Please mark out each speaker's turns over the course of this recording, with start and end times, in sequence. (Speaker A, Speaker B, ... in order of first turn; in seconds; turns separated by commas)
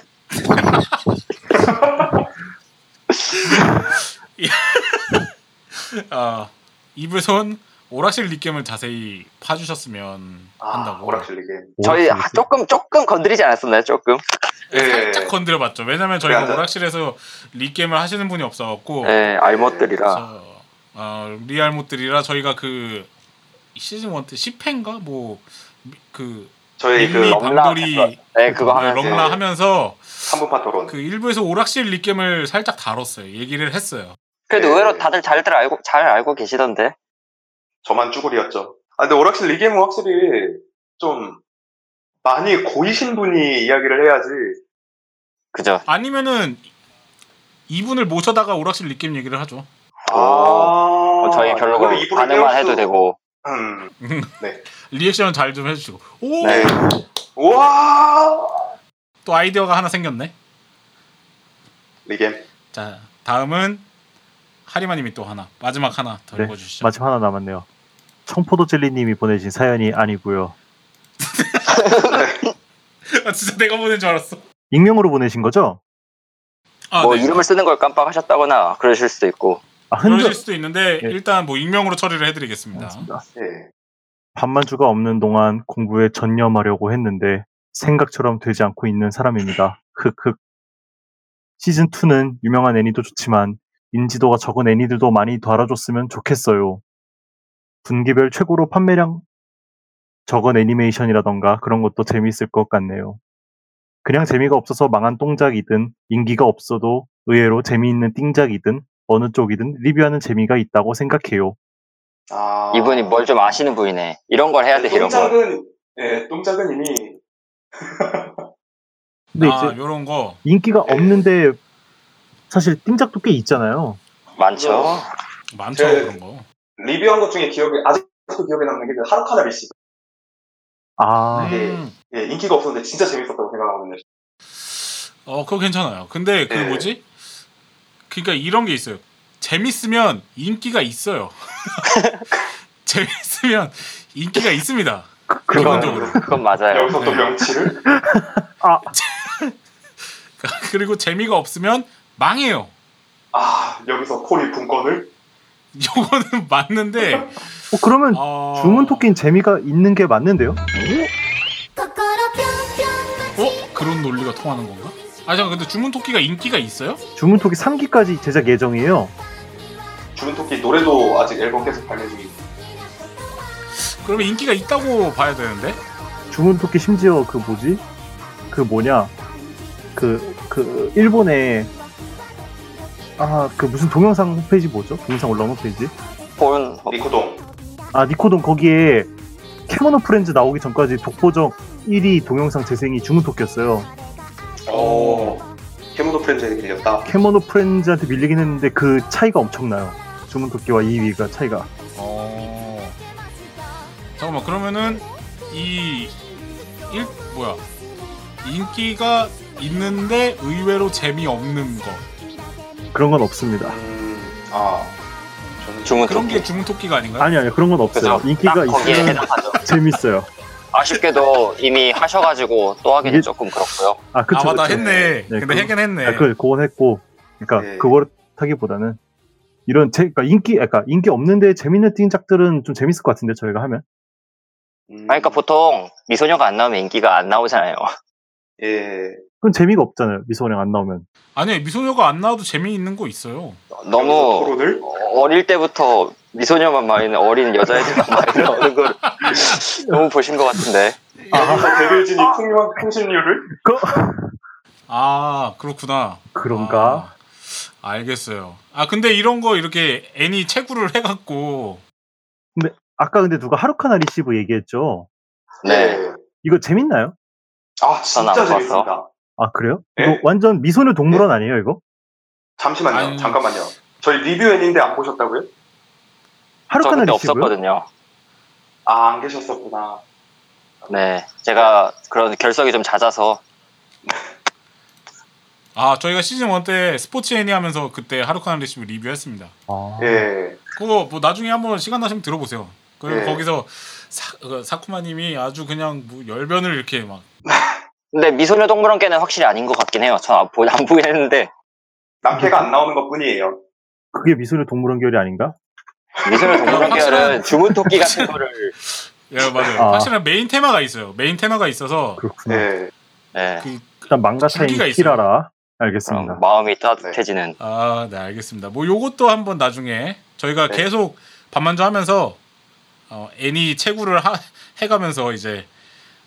Speaker A: 0.7-1.0, Speaker B: 1.5-2.2, Speaker A: 3.5-11.3, Speaker B: 10.6-11.8, Speaker C: 11.8-12.4, Speaker D: 11.8-14.2, Speaker A: 14.7-19.2, Speaker B: 14.7-15.3, Speaker B: 16.2-16.6, Speaker D: 19.0-20.2, Speaker B: 19.3-19.9, Speaker A: 20.1-23.1, Speaker A: 23.7-34.1, Speaker B: 26.8-27.4, Speaker D: 27.2-29.3, Speaker B: 29.0-29.4, Speaker B: 30.2-30.9, Speaker D: 34.5-36.9, Speaker B: 34.5-35.1, Speaker B: 37.8-41.4, Speaker B: 42.2-44.6, Speaker D: 45.5-45.8, Speaker A: 45.9-46.6, Speaker A: 47.7-49.7, Speaker B: 50.1-52.9, Speaker D: 50.1-53.1, Speaker B: 53.4-54.6, Speaker A: 54.0-56.9, Speaker D: 56.4-56.7, Speaker B: 56.4-58.6, Speaker A: 59.2-60.3, Speaker B: 62.0-62.5, Speaker A: 62.7-63.9, Speaker A: 64.7-66.9, Speaker C: 66.3-67.7, Speaker C: 68.3-70.5, Speaker A: 71.2-72.0, Speaker D: 71.8-72.2, Speaker B: 72.0-72.4, Speaker A: 73.1-74.4, Speaker C: 74.7-75.8, Speaker A: 76.9-77.5, Speaker D: 77.0-79.6, Speaker C: 79.9-80.4, Speaker A: 80.0-83.1, Speaker C: 82.7-83.2, Speaker B: 83.3-83.7, Speaker C: 84.3-90.4, Speaker C: 91.6-96.8, Speaker C: 97.8-99.2, Speaker C: 100.3-103.2, Speaker C: 104.0-111.5, Speaker B: 112.3-113.2, Speaker D: 112.7-115.4, Speaker B: 114.7-117.2, Speaker B: 117.8-118.4, Speaker C: 119.3-119.8, Speaker A: 119.4-120.4, Speaker C: 120.4-121.6, Speaker B: 120.9-121.3, Speaker C: 122.5-124.0, Speaker D: 124.3-125.1, Speaker B: 124.5-125.0, Speaker A: 125.5-126.4, Speaker B: 125.7-126.1, Speaker B: 126.8-129.7, Speaker C: 131.0-131.6, Speaker A: 131.3-131.9, Speaker B: 131.4-134.0, Speaker A: 134.6-137.0, Speaker B: 136.5-136.9, Speaker A: 138.1-141.9, Speaker D: 141.9-142.2, Speaker A: 142.8-146.2, Speaker C: 145.3-146.2, Speaker B: 145.5-147.8, Speaker D: 145.7-147.0, Speaker A: 147.0-147.3, Speaker C: 147.8-148.9, Speaker A: 148.9-149.6, Speaker A: 150.4-152.7, Speaker B: 153.3-155.1, Speaker A: 155.7-157.5, Speaker C: 157.7-160.6, Speaker A: 158.1-159.1, Speaker E: 161.8-163.7, Speaker A: 163.4-167.0, Speaker C: 167.2-169.1, Speaker B: 170.2-172.3, Speaker A: 173.8-175.8, Speaker C: 176.3-177.8, Speaker C: 178.5-179.1, Speaker C: 179.9-181.7, Speaker C: 183.2-185.9, Speaker D: 186.4-187.0, Speaker B: 186.9-187.4, Speaker C: 187.9-189.1, Speaker C: 189.7-193.9, Speaker B: 194.6-195.4, Speaker A: 194.7-195.4, Speaker B: 195.9-197.1, Speaker C: 197.0-201.7, Speaker A: 201.9-203.0, Speaker A: 204.2-206.2, Speaker E: 204.5-205.0, Speaker A: 206.9-207.6, Speaker A: 208.4-212.0, Speaker C: 212.9-213.8, Speaker B: 213.7-214.9, Speaker B: 215.6-216.3, Speaker D: 215.8-216.5, Speaker A: 216.0-217.3, Speaker C: 217.2-220.3, Speaker D: 217.9-219.6, Speaker D: 220.7-224.0, Speaker C: 223.0-223.3, Speaker C: 224.1-229.0, Speaker A: 224.3-226.3, Speaker B: 224.7-225.1, Speaker B: 227.6-228.0, Speaker C: 229.7-233.8, Speaker B: 234.9-235.4, Speaker D: 235.1-237.9, Speaker B: 238.6-239.2, Speaker C: 239.4-241.0, Speaker A: 241.3-243.6, Speaker D: 243.7-251.0, Speaker B: 243.9-244.8, Speaker A: 249.0-249.5, Speaker C: 251.3-252.4, Speaker B: 251.3-253.5, Speaker C: 253.5-254.3, Speaker A: 254.9-261.8, Speaker C: 256.3-257.1, Speaker C: 262.6-265.1, Speaker D: 265.6-266.0, Speaker B: 265.6-266.2, Speaker C: 266.4-267.1, Speaker B: 267.8-269.1, Speaker D: 268.1-268.9, Speaker C: 269.4-271.8, Speaker B: 269.9-270.2, Speaker B: 272.6-275.5, Speaker A: 272.9-273.6, Speaker C: 276.7-277.5, Speaker D: 276.8-277.9, Speaker B: 278.9-280.0, Speaker D: 280.9-283.4, Speaker A: 285.7-289.5, Speaker C: 289.7-290.3, Speaker B: 290.0-290.6, Speaker A: 290.7-297.2, Speaker B: 293.1-293.4, Speaker B: 297.4-297.8, Speaker D: 298.1-301.5, Speaker B: 302.2-303.6, Speaker C: 302.3-302.7, Speaker C: 304.1-305.5, Speaker B: 306.2-307.3, Speaker D: 306.2-308.7, Speaker A: 306.6-312.2, Speaker C: 309.8-310.1, Speaker C: 312.2-312.7, Speaker B: 312.5-312.9, Speaker D: 313.3-313.7, Speaker A: 313.6-315.2, Speaker C: 314.1-316.4, Speaker D: 316.1-317.6, Speaker A: 317.6-322.4, Speaker A: 323.1-325.7